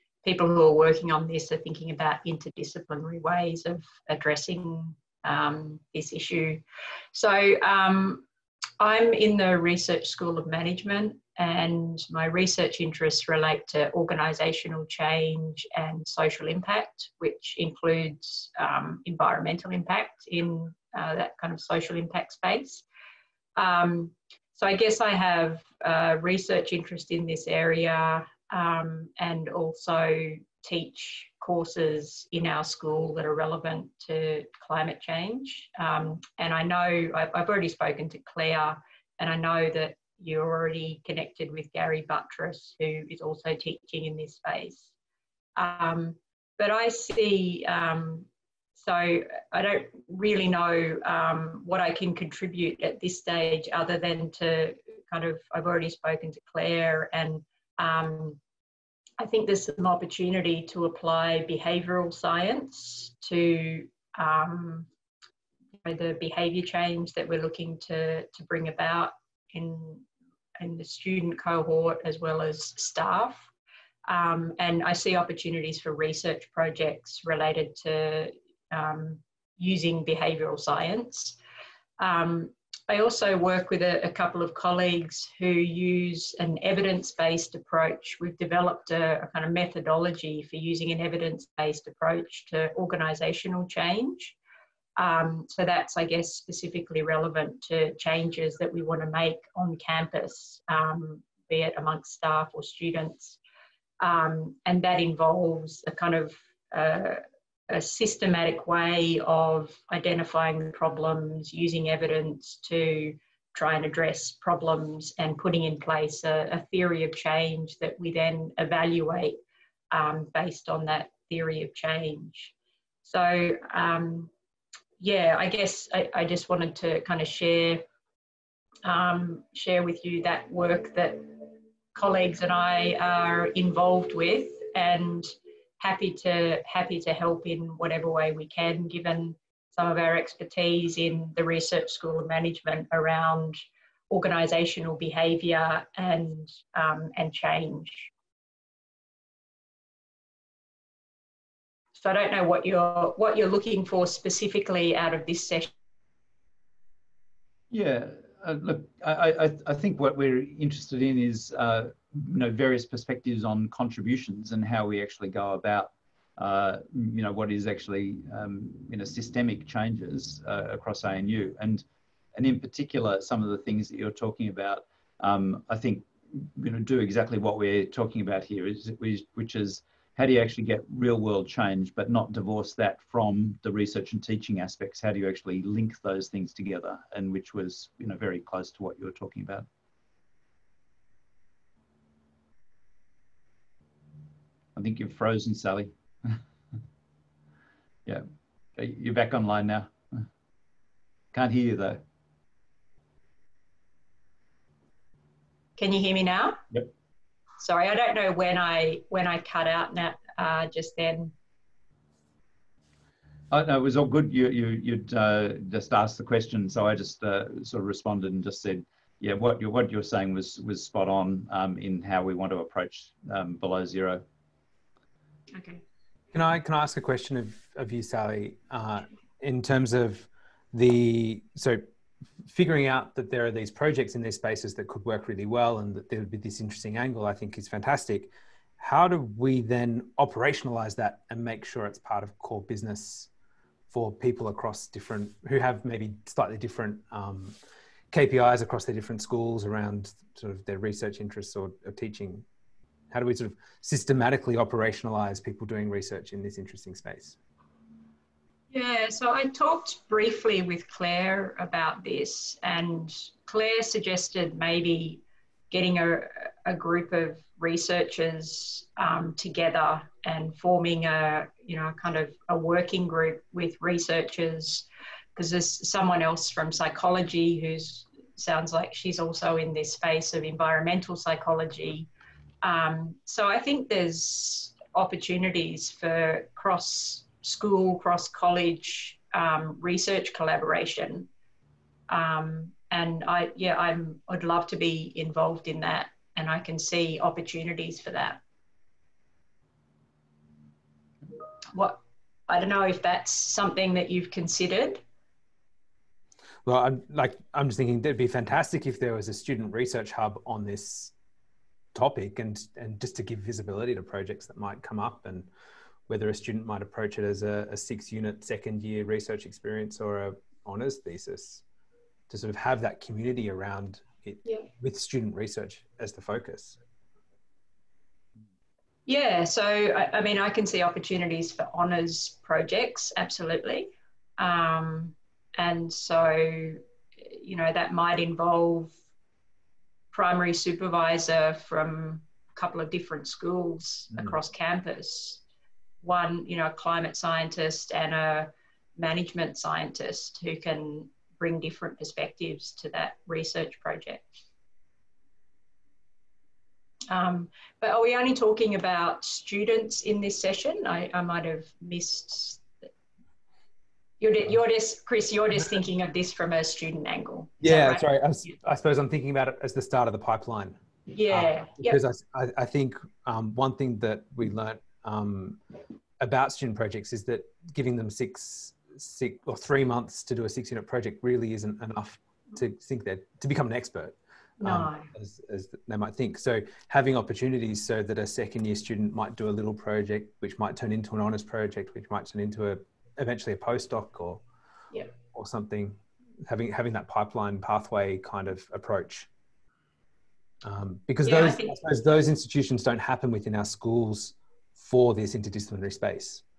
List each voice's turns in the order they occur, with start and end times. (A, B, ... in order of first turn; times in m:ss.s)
0:00.2-0:08.2 A
0:08.8-0:22.8 A
0:23.6-0:44.9 A
0:45.6-0:58.4 A
0:59.2-1:04.9 A
1:05.8-1:10.0 A
1:10.6-1:13.5 A
1:14.1-1:21.4 A
1:22.0-1:34.4 A
1:35.0-1:43.4 A
1:44.0-1:59.4 A
1:59.9-2:02.5 A
2:03.0-2:04.3 A
2:05.0-2:07.9 A
2:08.8-2:15.3 A
2:15.8-2:28.1 A
2:32.0-2:35.7 A
2:37.7-2:51.8 B
2:52.4-3:09.7 B
3:14.8-3:16.4 B
3:18.8-3:19.9 B
3:21.3-3:22.0 B
3:25.8-3:26.6 A
3:27.6-3:31.3 A
3:33.5-3:44.2 B
3:45.5-3:45.8 A
3:46.3-3:51.8 C
3:52.4-4:03.3 C
4:03.9-4:07.6 C
4:08.1-4:12.4 C
4:13.1-4:17.4 C
4:18.7-4:42.1 A
4:42.6-4:51.3 A
4:52.1-4:58.4 A
5:01.7-5:05.0 A
5:06.6-5:11.1 C
5:11.9-5:15.5 C
5:16.1-5:21.6 C
5:22.3-5:26.8 C
5:29.1-5:39.0 A
5:40.1-5:45.4 A
5:46.0-5:54.4 A
5:57.1-6:02.6 A
6:04.2-6:08.5 A
6:07.6-6:10.8 C
6:11.1-6:12.0 A
6:11.3-6:15.6 C
6:16.2-6:34.4 C
6:24.6-6:25.1 A
6:35.3-6:39.3 C
6:40.6-6:46.4 C
6:41.2-6:41.8 A